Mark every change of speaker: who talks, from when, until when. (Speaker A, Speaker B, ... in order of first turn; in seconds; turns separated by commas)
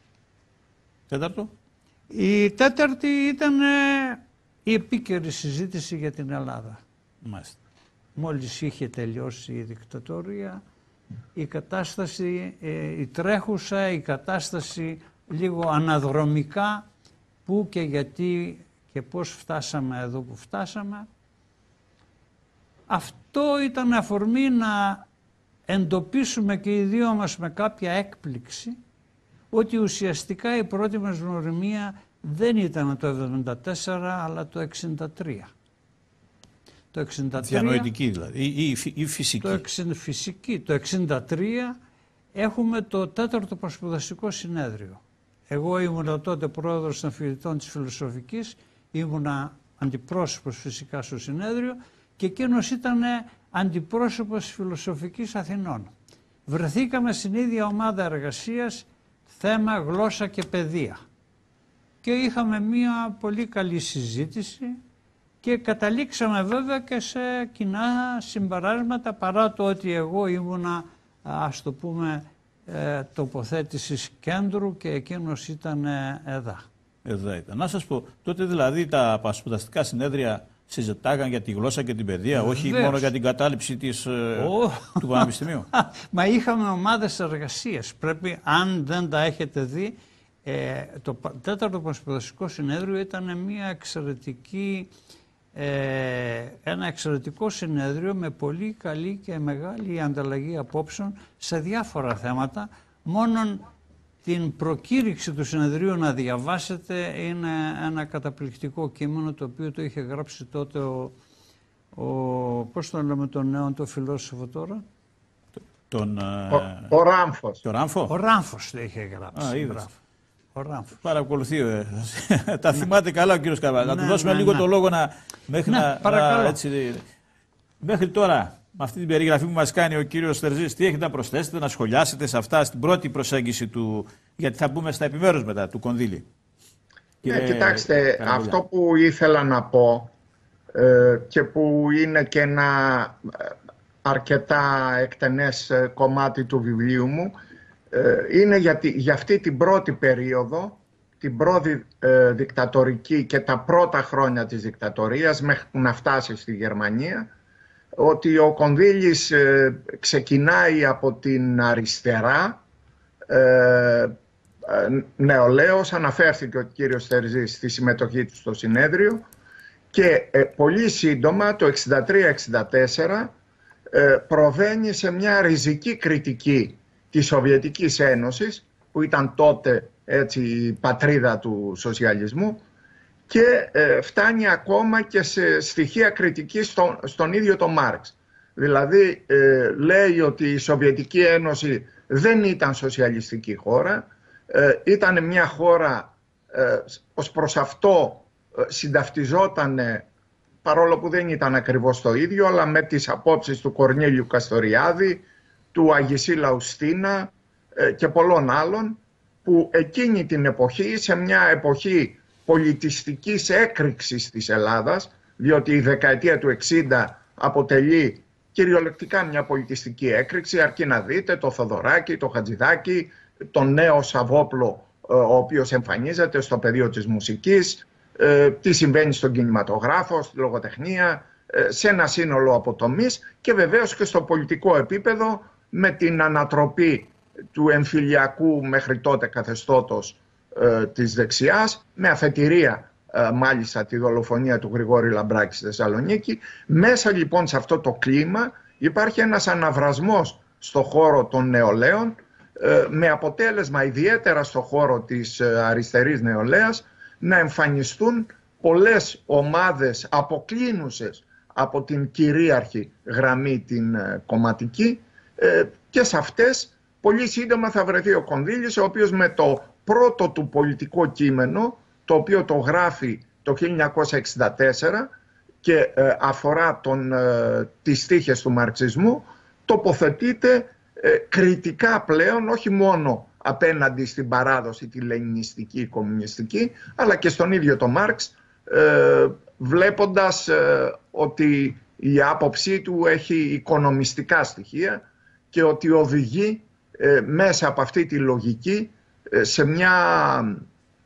Speaker A: 1.1-1.5, Speaker B: 2.1-6.8, Speaker A: 7.2-7.6, Speaker B: 8.2-10.6, Speaker B: 11.3-16.8, Speaker B: 17.4-21.1, Speaker B: 22.9-25.0, Speaker B: 25.7-28.8, Speaker B: 29.5-35.5, Speaker B: 36.9-37.9, Speaker A: 37.4-39.6, Speaker B: 39.4-41.8, Speaker B: 42.3-55.9, Speaker B: 56.5-61.0, Speaker B: 62.0-64.8, Speaker B: 65.4-76.6, Speaker A: 77.0-85.7, Speaker B: 82.3-83.1, Speaker B: 84.4-94.9, Speaker B: 95.5-103.6, Speaker B: 104.2-111.2, Speaker B: 111.9-114.8, Speaker A: 115.6-116.9, Speaker C: 116.5-117.6, Speaker A: 117.6-118.1, Speaker B: 118.1-120.0, Speaker A: 119.3-119.8, Speaker B: 120.5-121.0, Speaker A: 121.0-127.0, Speaker B: 123.8-124.7, Speaker B: 125.7-126.6, Speaker A: 127.8-136.2, Speaker A: 137.2-138.6, Speaker C: 137.2-140.1, Speaker C: 140.7-147.3, Speaker C: 147.9-157.3, Speaker C: 158.0-162.6, Speaker C: 163.3-164.1, Speaker C: 164.6-169.2, Speaker C: 169.9-173.3, Speaker C: 173.9-182.6, Speaker C: 183.3-200.1, Speaker C: 200.6-275.1, Speaker C: 275.6-300.6